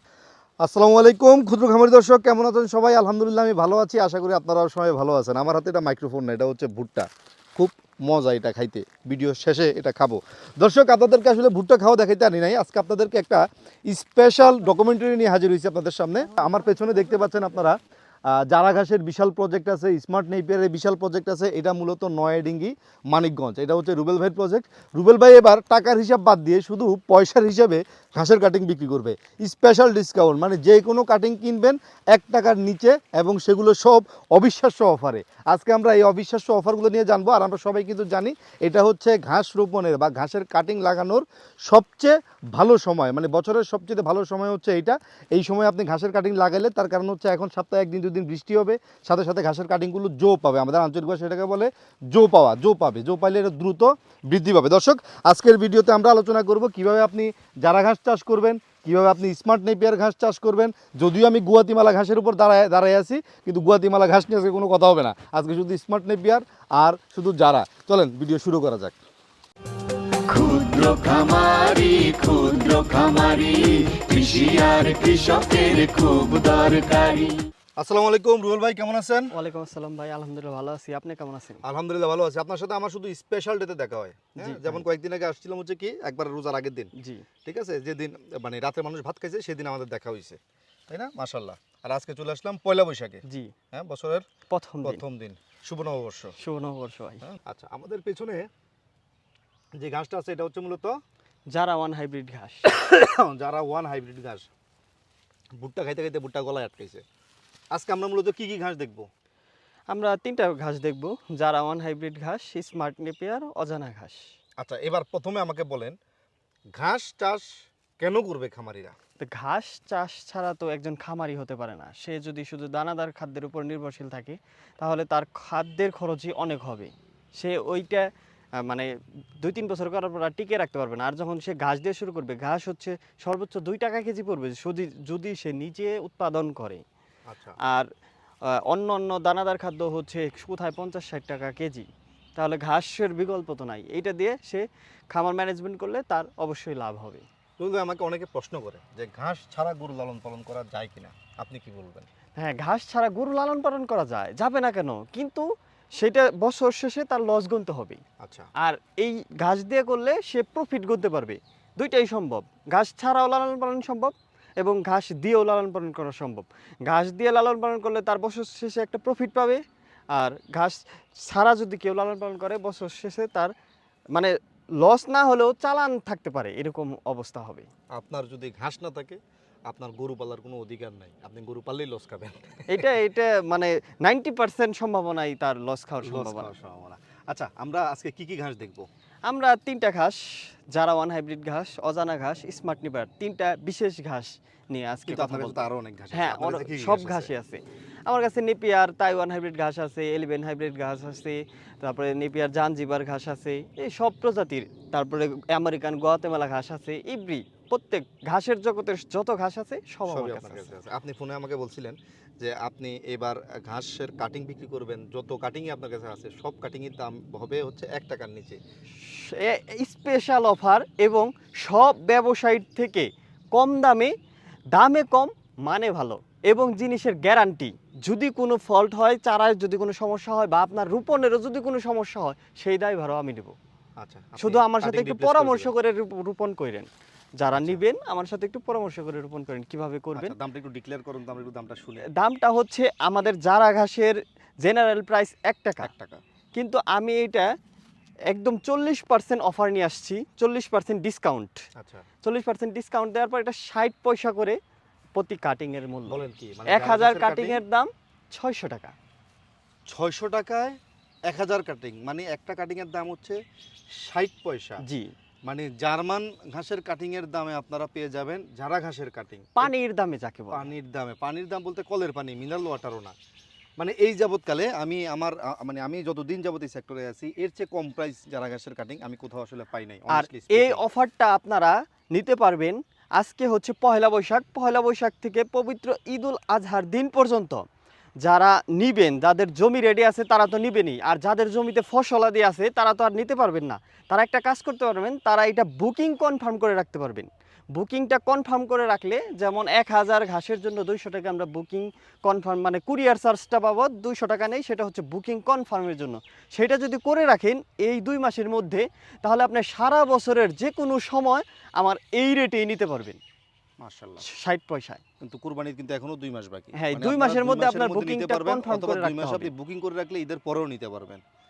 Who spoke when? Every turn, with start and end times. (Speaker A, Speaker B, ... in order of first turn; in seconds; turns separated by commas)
Speaker A: 0.6-17.8, Speaker A: 18.3-69.0, Speaker B: 70.3-77.4, Speaker A: 77.8-79.3, Speaker C: 79.3-81.6, Speaker A: 81.6-86.9, Speaker C: 84.4-84.8, Speaker C: 86.9-87.2, Speaker A: 87.4-94.2, Speaker C: 93.2-93.5, Speaker C: 94.5-95.0, Speaker A: 94.8-96.3, Speaker C: 96.4-97.2, Speaker A: 97.2-98.5, Speaker A: 99.8-101.0, Speaker C: 101.5-102.7, Speaker A: 102.6-104.5, Speaker A: 105.6-107.0, Speaker A: 107.7-109.1, Speaker C: 109.9-114.3, Speaker A: 114.6-115.9, Speaker A: 116.7-117.5, Speaker A: 118.0-118.9, Speaker C: 119.2-128.9, Speaker C: 129.4-136.8, Speaker A: 137.3-137.6, Speaker C: 138.4-147.2, Speaker A: 147.6-152.1, Speaker C: 152.4-158.0, Speaker A: 158.2-158.5, Speaker C: 158.6-169.6, Speaker C: 170.1-173.5, Speaker C: 174.1-177.7, Speaker A: 177.9-183.0, Speaker C: 182.7-186.5, Speaker A: 186.0-188.9, Speaker C: 189.3-190.2, Speaker C: 190.7-210.8, Speaker A: 195.1-197.3, Speaker A: 210.1-218.6, Speaker C: 219.0-224.1, Speaker C: 224.7-233.5, Speaker A: 234.0-235.7, Speaker C: 234.4-236.9, Speaker C: 237.4-240.3, Speaker A: 237.5-237.8, Speaker A: 240.1-242.1, Speaker C: 242.1-245.9, Speaker A: 245.8-246.2, Speaker C: 246.6-247.5, Speaker C: 248.3-251.6, Speaker A: 251.8-252.1, Speaker C: 252.2-254.6, Speaker C: 255.1-258.9, Speaker A: 256.1-257.6, Speaker A: 259.9-263.4, Speaker A: 263.9-264.8, Speaker C: 264.8-265.1, Speaker A: 265.4-269.7, Speaker C: 269.6-270.7, Speaker A: 270.5-273.1, Speaker A: 273.8-280.8, Speaker C: 280.1-287.6, Speaker C: 288.2-313.2, Speaker A: 313.8-314.2, Speaker C: 314.2-315.0, Speaker A: 315.2-321.2, Speaker C: 316.7-319.5